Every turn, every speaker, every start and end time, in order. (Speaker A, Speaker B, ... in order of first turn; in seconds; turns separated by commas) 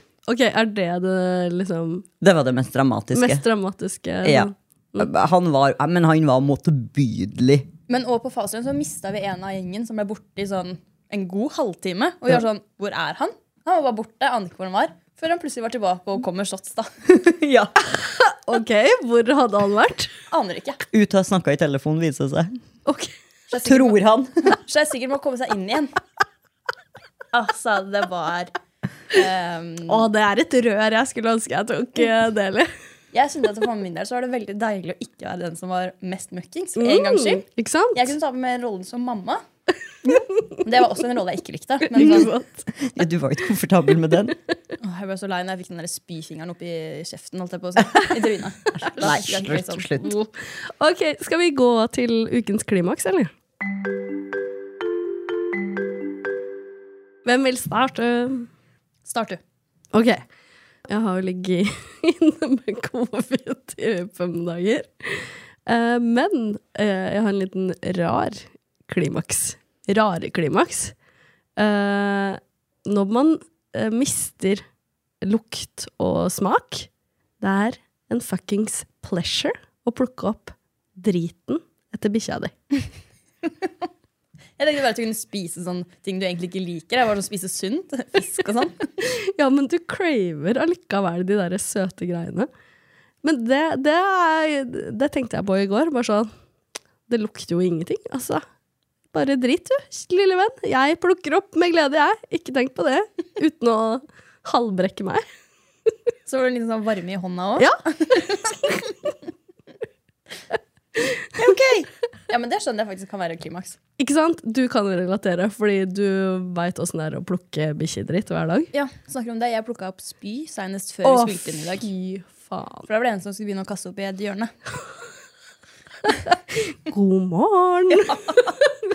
Speaker A: 0.3-2.1, Speaker B: 2.2-3.4, Speaker A: 3.1-5.1, Speaker B: 4.2-7.7, Speaker C: 7.9-16.9, Speaker B: 17.1-17.7, Speaker A: 18.0-20.1, Speaker C: 20.3-20.8, Speaker B: 20.9-22.6, Speaker A: 22.9-23.1, Speaker C: 23.5-25.9, Speaker B: 23.6-24.3, Speaker C: 27.3-28.5, Speaker C: 29.1-30.1, Speaker A: 29.9-32.7, Speaker C: 33.1-39.4, Speaker A: 36.8-38.1, Speaker C: 40.6-42.3, Speaker A: 41.9-42.7, Speaker B: 42.0-44.4, Speaker C: 44.8-50.1, Speaker B: 48.8-50.1, Speaker A: 50.0-53.3, Speaker A: 57.2-58.5, Speaker C: 59.1-59.4, Speaker A: 59.9-60.2, Speaker A: 60.9-71.0, Speaker A: 71.6-74.6, Speaker A: 75.2-76.9, Speaker A: 77.4-82.5, Speaker C: 84.6-88.9, Speaker A: 89.0-92.5, Speaker A: 93.2-96.3, Speaker A: 97.1-98.4, Speaker A: 99.1-105.2, Speaker C: 106.3-108.5, Speaker B: 111.4-111.9, Speaker C: 112.3-113.8, Speaker A: 114.0-118.7, Speaker C: 118.7-121.9, Speaker A: 121.0-122.9, Speaker C: 122.9-124.5, Speaker A: 126.7-128.5, Speaker C: 128.1-128.4